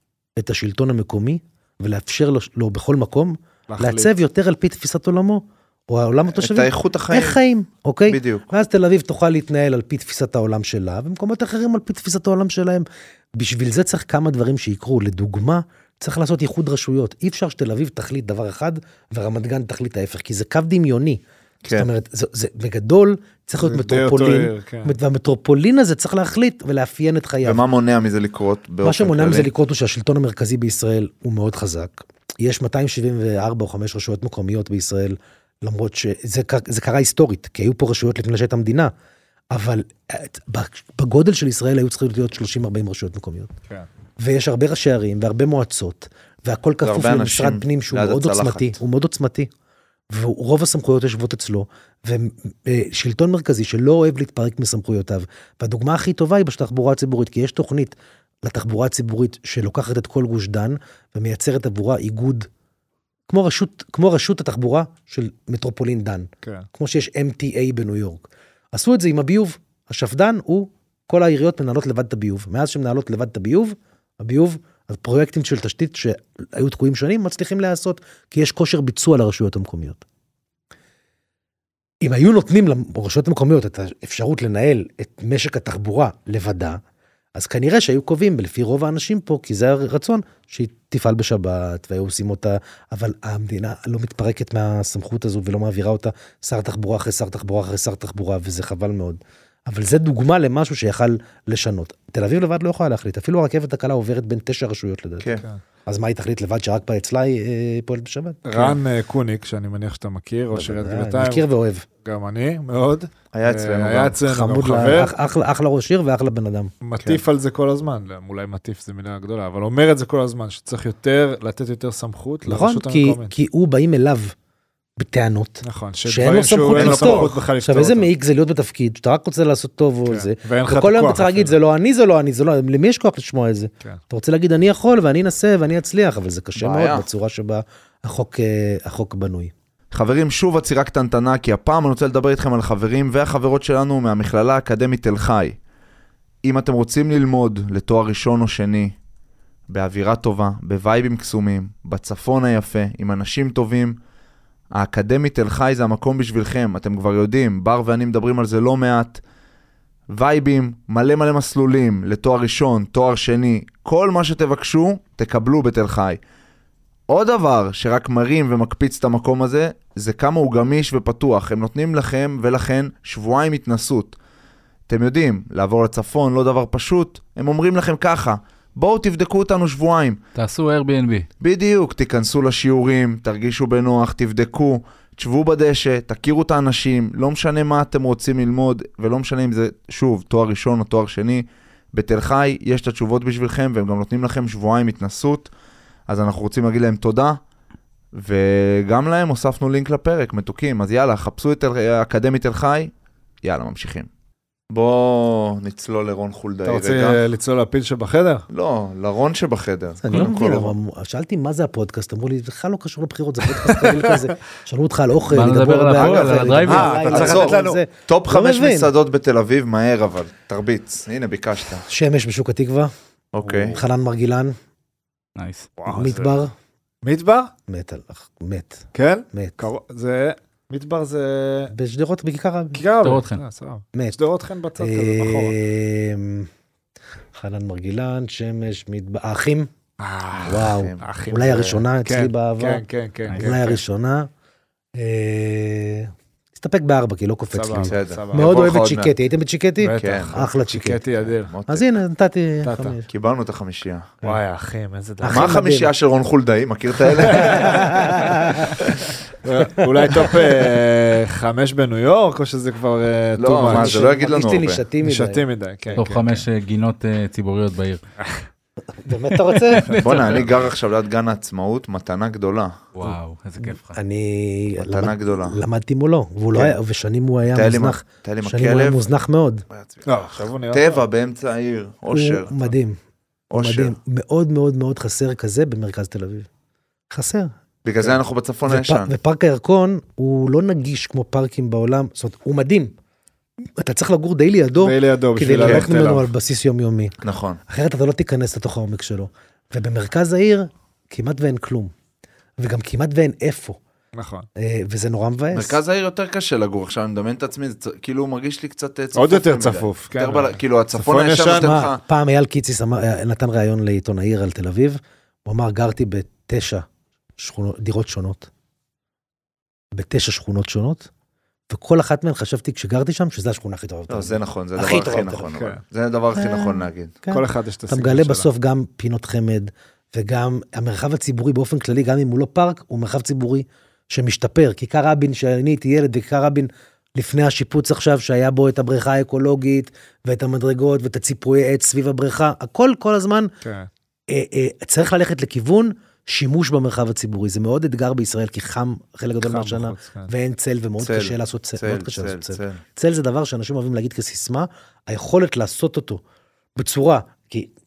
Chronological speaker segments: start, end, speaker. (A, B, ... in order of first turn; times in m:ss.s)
0:00.4-0:27.6 A
0:03.7-0:04.1 B
0:06.3-0:07.4 C
0:08.1-0:08.5 C
0:21.6-0:21.9 C
0:23.6-0:25.0 B
0:27.4-0:29.5 C
0:28.8-0:38.9 A
0:39.5-0:43.5 A
0:44.2-0:49.5 A
0:46.8-0:48.8 C
0:50.1-1:02.5 A
1:03.3-1:20.0 A
1:06.4-1:06.7 B
1:22.0-1:26.8 A
1:27.4-1:45.3 A
1:45.2-1:45.4 C
1:45.9-1:48.8 A
1:48.4-1:51.4 B
1:50.5-1:51.9 A
1:52.0-1:55.1 B
1:53.3-1:54.2 C
1:54.3-1:56.7 A
1:56.8-2:03.4 B
2:02.4-2:04.4 A
2:05.0-2:19.5 A
2:05.6-2:08.1 B
2:06.7-2:07.3 C
2:10.1-2:11.6 B
2:16.6-2:17.1 C
2:19.9-2:25.6 C
2:26.4-2:29.0 C
2:29.7-2:34.0 C
2:34.7-2:39.2 C
2:40.1-2:46.2 C
2:47.1-2:54.2 C
2:54.9-3:00.2 C
3:00.4-3:01.3 D
3:01.4-3:15.5 C
3:16.1-3:17.4 C
3:18.1-3:24.1 C
3:24.7-3:27.2 C
3:26.6-3:28.5 B
3:28.5-3:30.7 C
3:30.0-3:38.9 A
3:35.3-3:37.3 D
3:35.9-3:36.5 C
3:36.6-3:37.8 B
3:37.1-3:41.9 C
3:41.9-3:42.9 A
3:43.3-3:43.8 C
3:43.4-3:43.7 B
3:43.7-3:44.6 A
3:45.4-3:45.7 D
3:45.8-3:46.4 B
3:45.9-3:46.5 A
3:47.0-3:47.5 B
3:47.7-3:49.6 A
3:48.9-3:51.7 B
3:51.7-3:52.8 A
3:52.7-3:55.6 B
3:53.0-3:53.4 D
3:54.8-3:56.5 A
3:57.3-3:59.7 A
4:00.0-4:03.8 B
4:00.4-4:01.0 C
4:00.5-4:04.3 A
4:05.0-4:11.0 A
4:07.5-4:08.6 B
4:07.8-4:09.1 C
4:09.8-4:11.6 B
4:10.0-4:10.5 C
4:11.5-4:11.9 C
4:11.7-4:13.1 A
4:12.6-4:13.0 B
4:13.1-4:14.2 C
4:14.2-4:15.6 B
4:15.2-4:15.9 A
4:15.3-4:18.2 C
4:17.3-4:18.2 B
4:17.4-4:18.7 A
4:19.4-4:24.1 B
4:23.4-4:24.8 C
4:23.7-4:25.4 A
4:25.0-4:26.4 B
4:26.0-4:28.0 D
4:28.2-4:28.4 B
4:29.0-4:30.0 A
4:29.8-4:30.4 D
4:29.8-4:30.4 B
4:30.0-4:32.8 C
4:33.0-4:34.0 D
4:33.6-4:39.6 A
4:34.8-4:35.6 C
4:37.5-4:39.1 C
4:39.7-4:42.7 C
4:40.0-4:41.0 B
4:42.1-4:43.0 A
4:43.5-4:44.0 C
4:43.5-4:46.5 A
4:47.1-4:47.5 A
4:47.8-4:49.1 C
4:48.7-4:52.9 A
4:53.8-5:01.9 A
4:54.8-4:56.3 B
4:55.6-4:55.9 C
4:57.2-4:57.6 C
5:02.6-5:03.8 A
5:04.1-5:04.5 B
5:04.6-5:05.8 A
5:05.5-5:12.0 C
5:09.1-5:11.8 B
5:11.5-5:16.9 A
5:17.4-5:18.5 A
5:19.9-5:21.1 A
5:21.7-5:25.5 A
5:24.1-5:27.2 C
5:25.5-5:25.8 B
5:26.4-5:43.5 A
5:27.3-5:28.5 B
5:43.6-5:43.9 B
5:44.3-5:56.2 A
5:49.4-5:50.3 B
5:51.0-5:52.8 C
5:56.8-5:57.7 A